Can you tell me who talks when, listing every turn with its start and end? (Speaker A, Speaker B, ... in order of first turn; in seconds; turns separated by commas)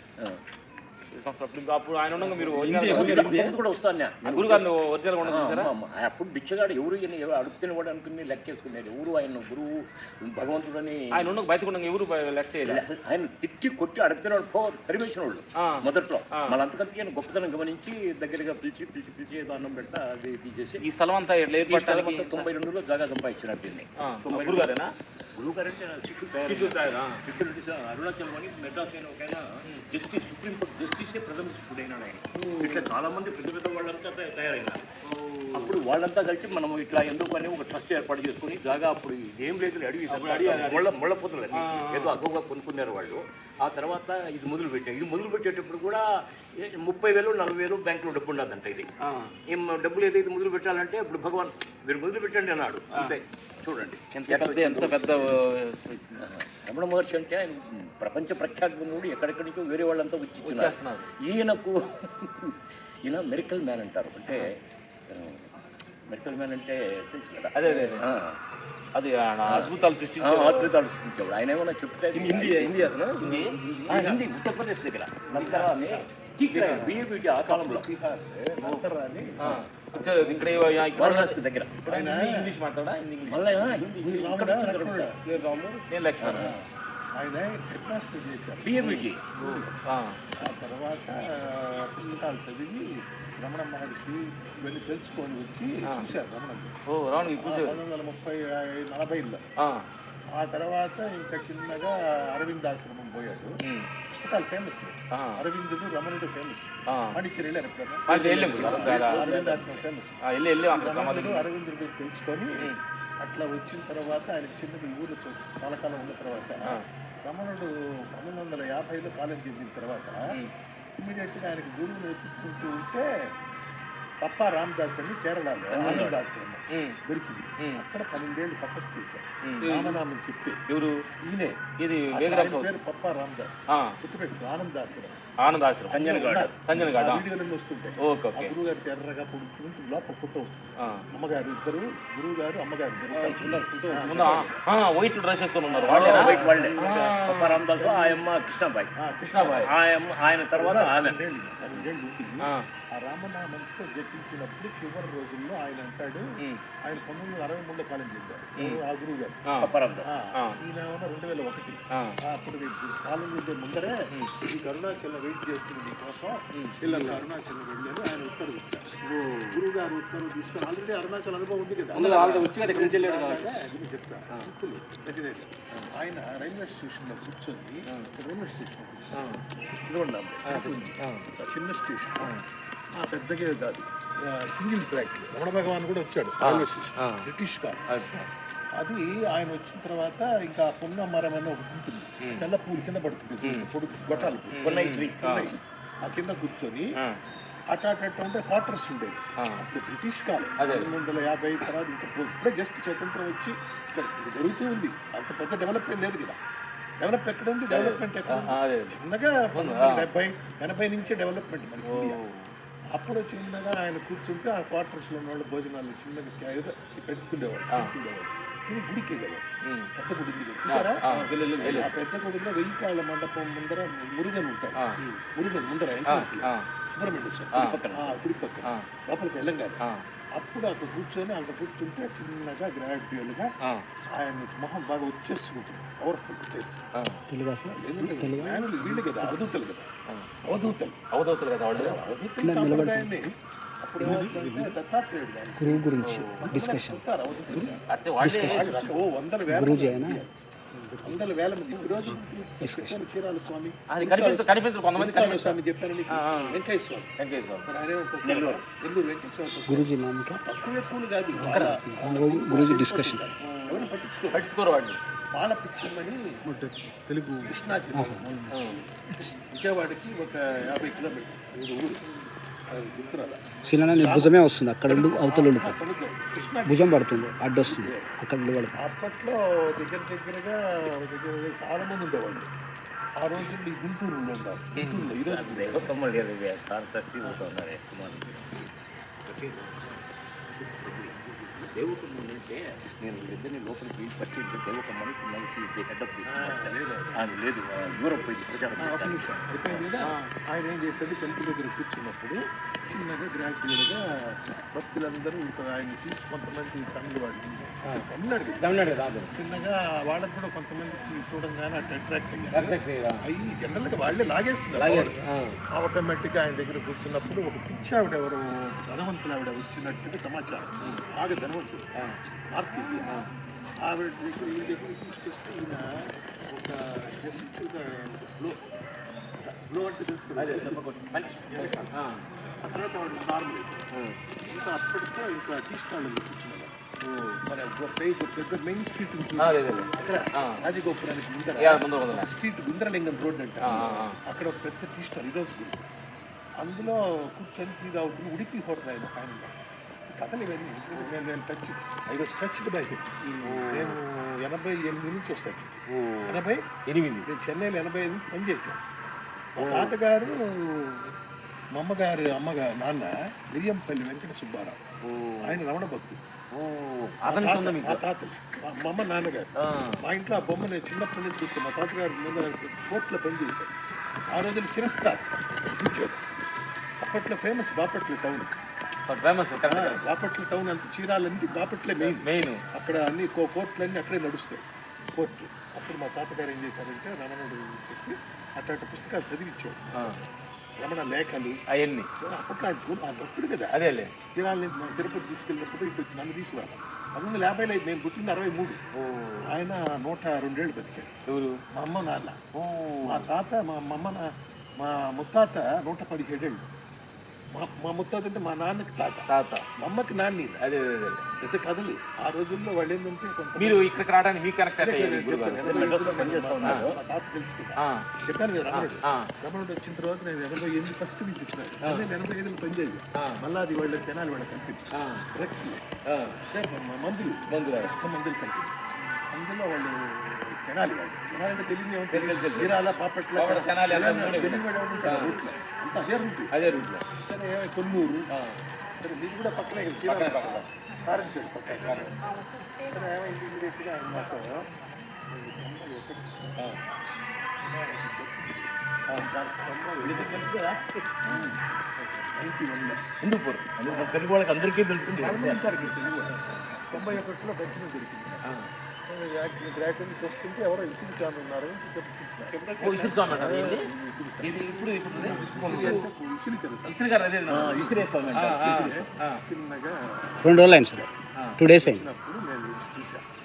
Speaker A: 1.1-3.5, Speaker B: 2.2-3.3, Speaker C: 2.6-4.7, Speaker A: 4.2-5.7, Speaker C: 5.2-11.3, Speaker A: 11.1-12.8, Speaker C: 12.7-20.8, Speaker A: 20.8-22.5, Speaker C: 21.7-24.7, Speaker A: 24.0-24.9, Speaker C: 25.4-34.9, Speaker A: 26.5-27.2, Speaker A: 32.4-32.8, Speaker A: 35.0-35.7, Speaker C: 35.5-48.9, Speaker A: 40.1-40.9, Speaker A: 41.5-42.2, Speaker A: 49.0-49.3, Speaker C: 49.5-55.4, Speaker A: 54.3-56.2, Speaker C: 56.2-64.5, Speaker A: 60.4-61.0, Speaker C: 65.1-65.5, Speaker C: 66.1-68.4, Speaker A: 67.5-68.0, Speaker A: 68.9-70.7, Speaker C: 69.5-77.9, Speaker A: 72.1-73.6, Speaker B: 73.6-74.2, Speaker B: 75.3-76.1, Speaker A: 76.5-77.0, Speaker B: 77.4-79.6, Speaker A: 79.4-81.4, Speaker B: 80.1-80.8, Speaker C: 80.9-81.9, Speaker B: 81.8-82.5, Speaker A: 81.9-83.5, Speaker C: 83.3-85.1, Speaker B: 83.6-85.1, Speaker A: 85.2-86.5, Speaker C: 86.2-86.5, Speaker B: 86.3-86.6, Speaker B: 87.2-88.8, Speaker C: 88.6-89.2, Speaker A: 88.8-90.2, Speaker B: 89.3-89.7, Speaker B: 90.4-92.8, Speaker B: 93.4-96.7, Speaker A: 96.9-97.8, Speaker B: 97.3-99.4, Speaker A: 99.6-99.9, Speaker B: 100.3-103.6, Speaker B: 104.1-110.1, Speaker A: 105.1-105.4, Speaker A: 106.9-107.2, Speaker A: 108.1-109.2, Speaker C: 108.1-109.8, Speaker A: 110.3-111.5, Speaker B: 110.7-120.3, Speaker B: 121.0-123.1, Speaker B: 124.2-130.6, Speaker C: 125.7-126.2, Speaker A: 125.8-126.1, Speaker A: 129.5-130.0, Speaker A: 130.7-131.0, Speaker B: 131.2-135.2, Speaker A: 131.8-132.7, Speaker A: 133.7-134.0, Speaker A: 135.4-136.1, Speaker C: 135.9-136.5, Speaker B: 135.9-144.6, Speaker A: 136.7-137.2, Speaker A: 138.0-138.6, Speaker A: 143.1-147.6, Speaker B: 145.6-148.2, Speaker C: 145.8-151.2, Speaker B: 149.0-149.7, Speaker A: 149.2-149.7, Speaker B: 150.6-156.3, Speaker B: 156.8-159.4, Speaker A: 158.6-158.8, Speaker C: 159.6-160.1, Speaker B: 160.0-179.3, Speaker A: 166.5-167.2, Speaker A: 169.3-169.6, Speaker A: 171.9-173.5, Speaker B: 179.8-182.3, Speaker A: 180.5-181.2, Speaker B: 182.9-188.2, Speaker A: 186.4-187.3, Speaker A: 187.9-188.2, Speaker B: 188.8-194.7, Speaker A: 193.4-195.5, Speaker C: 194.6-195.2, Speaker B: 195.2-196.9, Speaker B: 197.7-206.4, Speaker A: 199.4-199.6, Speaker A: 200.6-200.9, Speaker B: 207.0-212.2, Speaker A: 207.7-209.0, Speaker A: 209.5-210.1, Speaker A: 211.9-212.5, Speaker B: 212.9-219.4, Speaker B: 220.0-221.0, Speaker A: 220.7-221.9, Speaker C: 221.1-221.9, Speaker B: 221.6-224.8, Speaker B: 225.3-229.8, Speaker A: 226.1-226.6, Speaker C: 227.5-228.2, Speaker B: 230.3-233.5, Speaker B: 234.1-236.8, Speaker A: 236.9-237.2, Speaker D: 237.3-239.5, Speaker B: 237.7-239.9, Speaker B: 240.4-240.9, Speaker A: 241.1-242.0, Speaker B: 241.7-250.3, Speaker D: 242.4-243.2, Speaker D: 244.0-244.8, Speaker D: 245.6-248.9, Speaker A: 246.0-246.6, Speaker A: 247.9-248.9, Speaker D: 249.5-250.2, Speaker B: 251.0-257.1, Speaker D: 252.6-253.0, Speaker A: 253.9-255.6, Speaker A: 256.1-256.6, Speaker A: 257.2-257.7, Speaker B: 257.6-264.5, Speaker C: 258.2-258.6, Speaker D: 259.7-260.4, Speaker A: 261.4-261.8, Speaker D: 261.5-263.2, Speaker A: 263.4-265.0, Speaker B: 265.3-266.2, Speaker D: 266.5-268.4, Speaker B: 267.4-272.0, Speaker A: 268.5-268.8, Speaker B: 272.7-274.3, Speaker D: 273.7-275.8, Speaker B: 274.9-278.1, Speaker D: 276.6-278.8, Speaker B: 278.8-282.5, Speaker B: 283.2-285.9, Speaker A: 284.8-285.1, Speaker C: 285.2-288.7, Speaker C: 289.2-290.0, Speaker C: 290.6-299.9, Speaker B: 296.3-297.1, Speaker B: 298.8-315.1, Speaker A: 308.6-309.3, Speaker A: 312.5-313.2, Speaker A: 314.8-315.6, Speaker B: 315.7-321.9, Speaker B: 322.5-323.2, Speaker B: 323.8-325.9, Speaker B: 326.5-328.6, Speaker B: 329.4-330.8, Speaker A: 330.4-332.2, Speaker B: 331.5-331.9, Speaker B: 332.6-333.9, Speaker B: 334.4-336.7, Speaker A: 337.1-337.4, Speaker B: 337.4-345.9, Speaker A: 339.4-340.6, Speaker A: 341.6-342.3, Speaker A: 343.6-344.2, Speaker B: 346.6-349.6, Speaker B: 350.1-355.7, Speaker A: 353.2-354.0, Speaker A: 355.9-357.3, Speaker B: 356.2-356.6, Speaker B: 357.3-358.8, Speaker B: 359.6-361.1, Speaker A: 359.6-359.9, Speaker B: 361.7-364.8, Speaker A: 365.0-365.6, Speaker B: 365.4-366.2, Speaker A: 366.5-368.0, Speaker B: 367.2-373.8, Speaker A: 369.6-370.0, Speaker B: 374.3-376.2, Speaker B: 377.0-378.5, Speaker A: 379.1-380.0, Speaker B: 379.6-384.6, Speaker A: 382.0-382.6, Speaker B: 385.1-390.2, Speaker B: 390.8-391.6, Speaker A: 391.7-392.1, Speaker B: 392.2-393.8, Speaker A: 393.7-394.1, Speaker B: 394.4-398.8, Speaker A: 398.9-399.5, Speaker B: 399.4-401.1, Speaker A: 401.3-401.6, Speaker B: 401.7-402.4, Speaker A: 402.5-403.3, Speaker B: 403.0-406.7, Speaker B: 407.5-410.6, Speaker A: 409.3-409.6, Speaker A: 410.6-411.3, Speaker B: 411.4-413.9, Speaker A: 413.6-416.8, Speaker B: 414.8-425.8, Speaker C: 415.6-417.0, Speaker A: 417.8-418.1, Speaker A: 418.7-419.3, Speaker A: 424.9-425.3, Speaker A: 426.1-426.3, Speaker B: 426.5-428.7, Speaker A: 427.5-427.9, Speaker B: 429.3-438.3, Speaker A: 432.1-432.8, Speaker A: 433.4-435.4, Speaker A: 436.5-436.9, Speaker A: 438.3-438.6, Speaker B: 439.0-442.1, Speaker A: 440.1-440.6, Speaker A: 441.8-442.1, Speaker B: 442.9-444.7, Speaker B: 445.3-446.6, Speaker B: 447.6-450.6, Speaker C: 450.0-451.5, Speaker B: 451.3-453.0, Speaker C: 453.2-455.7, Speaker B: 453.9-454.1, Speaker B: 455.1-458.6, Speaker B: 459.1-473.2, Speaker A: 462.6-463.9, Speaker C: 462.9-463.8, Speaker A: 464.4-466.1, Speaker A: 466.8-469.4, Speaker C: 467.5-468.9, Speaker D: 470.4-471.0, Speaker D: 471.6-472.0